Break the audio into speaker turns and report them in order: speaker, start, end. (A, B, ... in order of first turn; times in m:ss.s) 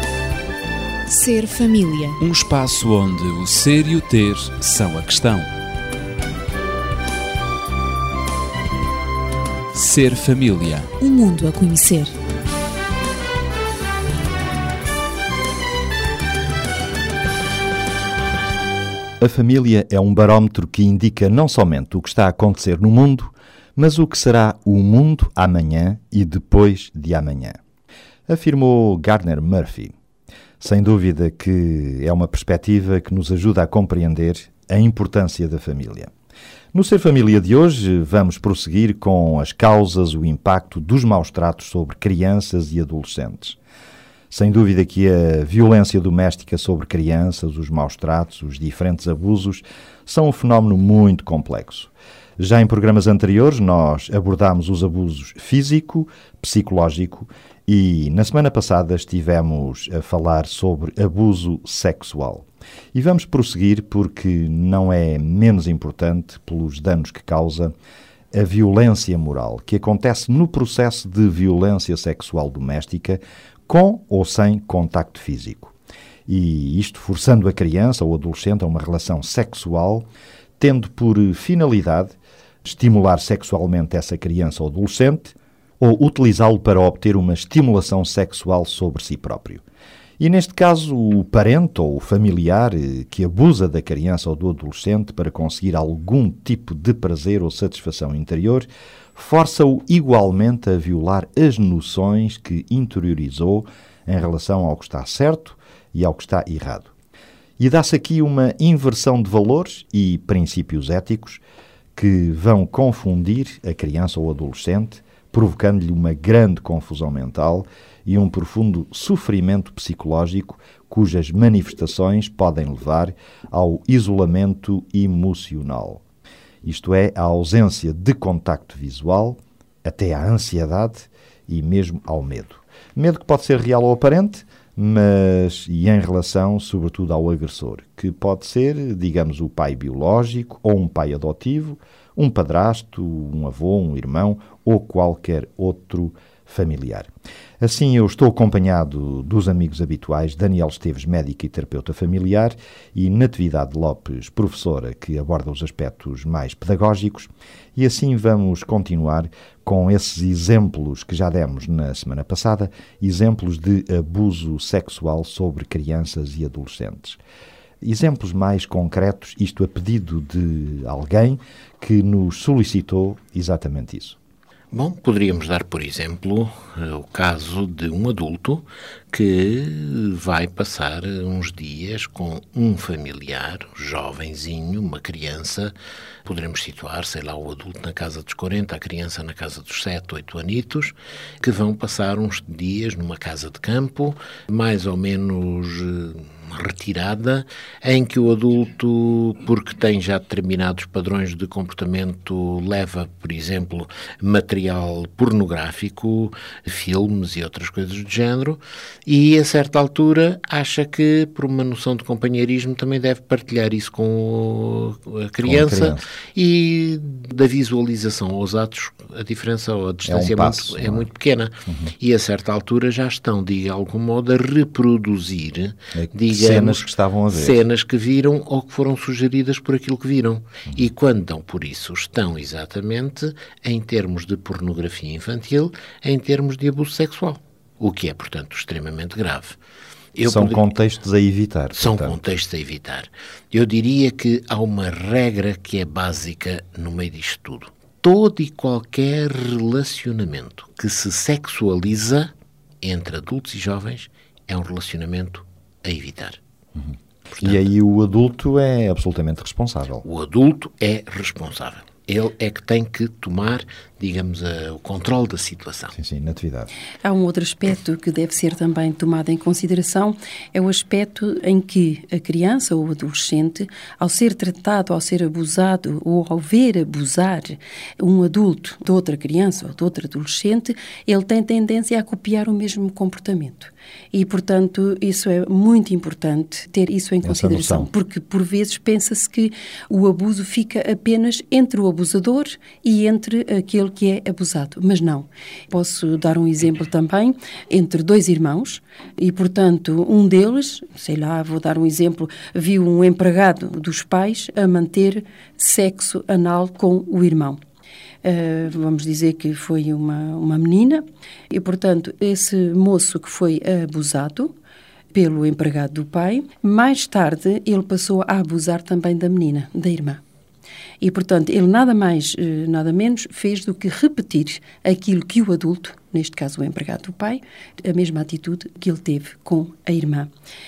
0:01.0-0:02.2 A
0:02.2-0:05.5 B
0:09.7-0:10.9 B
0:11.0-0:12.1 A
0:19.2-0:27.6 C
0:28.3-0:29.9 C
0:30.6-0:36.1 C
0:36.7-0:43.6 C
0:44.3-1:07.7 C
1:08.3-1:15.7 C
1:16.3-1:20.0 C
1:20.6-1:29.6 C
1:30.2-1:46.9 C
1:47.6-1:51.4 C
1:52.0-2:06.0 C
2:06.6-2:27.1 C
2:27.6-2:47.2 C
2:47.8-2:54.2 C
2:54.7-3:05.7 D
3:06.2-3:59.6 D
3:35.4-3:36.0 C
3:40.0-3:41.1 C
3:45.9-3:47.6 C
4:00.1-4:00.7 D
4:00.2-4:02.2 C
4:01.7-4:12.3 D
4:12.8-4:16.4 D
4:16.8-4:20.0 C
4:17.3-4:17.7 D
4:20.0-4:25.9 D
4:25.9-4:26.7 C
4:27.0-5:07.6 E
4:47.2-4:47.9 C
5:08.2-5:14.5 E
5:15.1-5:20.2 E
5:21.0-5:30.3 E